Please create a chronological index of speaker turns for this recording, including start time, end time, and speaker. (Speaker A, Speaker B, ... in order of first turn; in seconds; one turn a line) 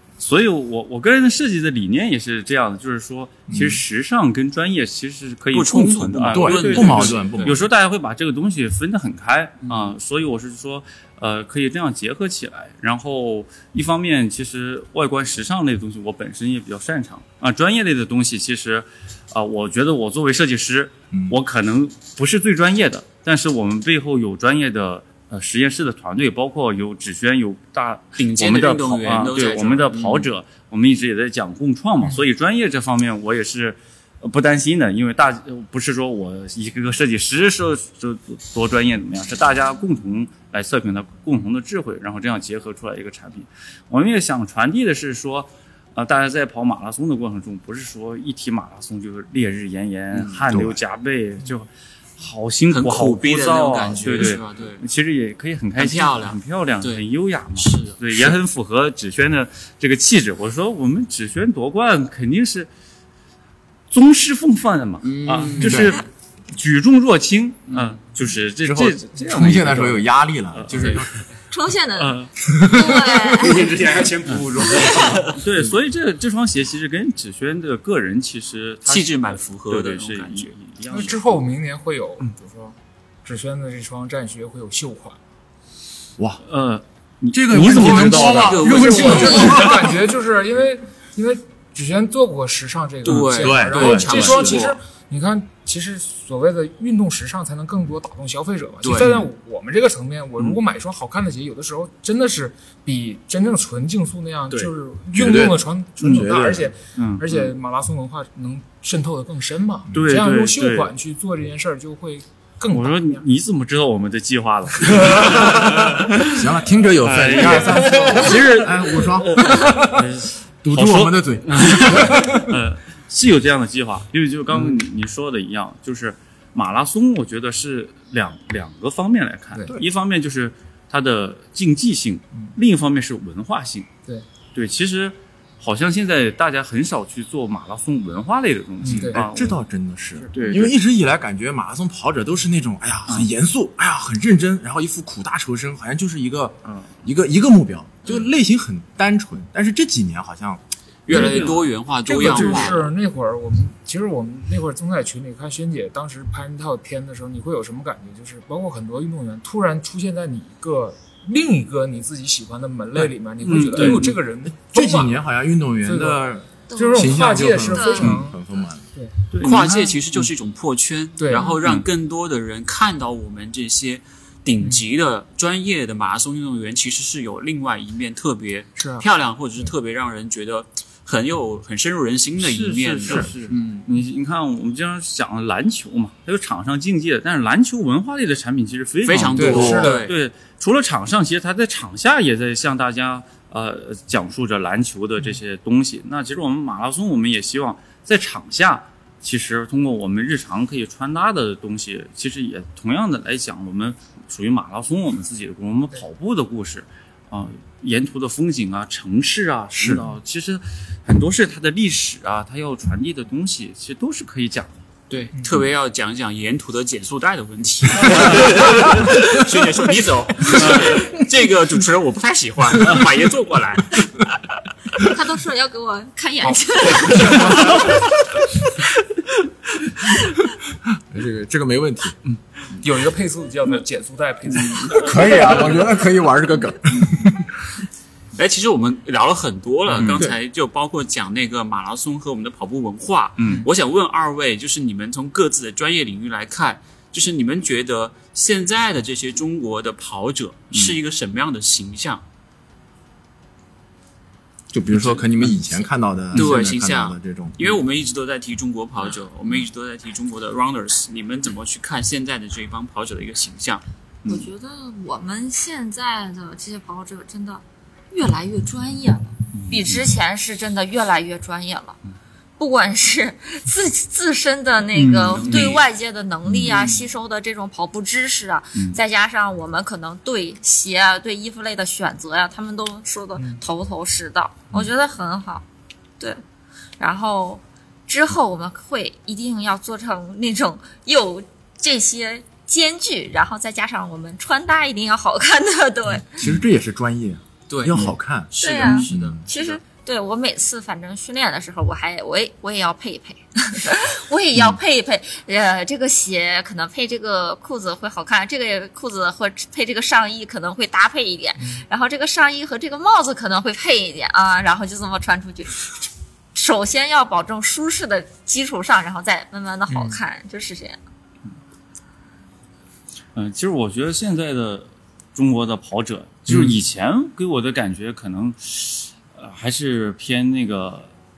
Speaker A: 0.2-62.7
Speaker B: 3.5-3.8
Speaker C: 5.5-7.5
Speaker B: 6.3-7.7
Speaker C: 9.6-9.9
Speaker B: 21.1-21.4
Speaker C: 28.2-30.3
Speaker B: 50.5-50.8
Speaker C: 52.7-54.8
Speaker C: 55.8-57.0
Speaker C: 57.6-58.3
Speaker A: 63.9-71.1
Speaker C: 65.0-65.9
Speaker B: 65.6-66.0
Speaker B: 68.6-71.1
Speaker D: 71.5-73.7
Speaker A: 72.0-72.3
Speaker B: 72.5-73.6
Speaker E: 73.4-75.3
Speaker D: 74.7-75.1
Speaker A: 75.1-81.4
Speaker C: 78.9-80.5
Speaker F: 80.9-85.2
Speaker A: 86.5-88.8
Speaker B: 87.3-90.0
Speaker C: 87.9-89.6
Speaker F: 88.0-113.2
Speaker C: 93.0-94.8
Speaker B: 93.1-94.6
Speaker C: 98.8-99.2
Speaker B: 105.1-106.7
Speaker A: 106.0-107.5
Speaker A: 109.9-110.9
Speaker A: 112.7-116.5
Speaker F: 114.9-115.4
Speaker B: 115.5-120.1
Speaker A: 117.0-133.9
Speaker F: 117.5-118.1
Speaker B: 120.6-122.6
Speaker A: 134.5-139.6
Speaker F: 138.8-139.2
Speaker B: 138.9-150.6
Speaker A: 140.3-140.8
Speaker A: 146.7-146.9
Speaker C: 151.1-152.9
Speaker F: 151.1-151.5
Speaker A: 151.1-152.8
Speaker F: 152.1-165.2
Speaker A: 163.4-164.2
Speaker B: 163.8-168.9
Speaker F: 165.8-166.2
Speaker D: 166.7-168.2
Speaker F: 166.8-168.4
Speaker A: 169.3-170.2
Speaker C: 169.4-183.8
Speaker F: 171.2-171.6
Speaker A: 171.6-171.9
Speaker F: 178.8-179.1
Speaker A: 182.4-214.8
Speaker C: 189.1-190.2
Speaker F: 189.3-190.1
Speaker B: 209.8-210.1
Speaker C: 215.1-224.1
Speaker F: 215.3-215.6
Speaker A: 218.1-218.5
Speaker A: 220.5-221.0
Speaker D: 225.0-227.8
Speaker F: 226.5-227.6
Speaker B: 231.0-232.2
Speaker F: 232.8-235.8
Speaker B: 234.9-237.5
Speaker C: 238.4-252.2
Speaker A: 239.9-240.3
Speaker B: 240.0-240.4
Speaker A: 243.4-243.7
Speaker A: 250.7-251.0
Speaker B: 254.7-257.8
Speaker C: 256.3-263.8
Speaker D: 264.3-272.0
Speaker A: 269.5-270.1
Speaker D: 272.6-285.6
Speaker A: 274.9-275.8
Speaker C: 275.3-275.8
Speaker A: 276.5-277.0
Speaker F: 283.4-283.6
Speaker D: 287.0-296.4
Speaker B: 296.4-299.4
Speaker C: 297.7-299.8
Speaker D: 298.6-321.0
Speaker F: 319.9-320.2
Speaker A: 323.4-331.1
Speaker B: 326.5-326.7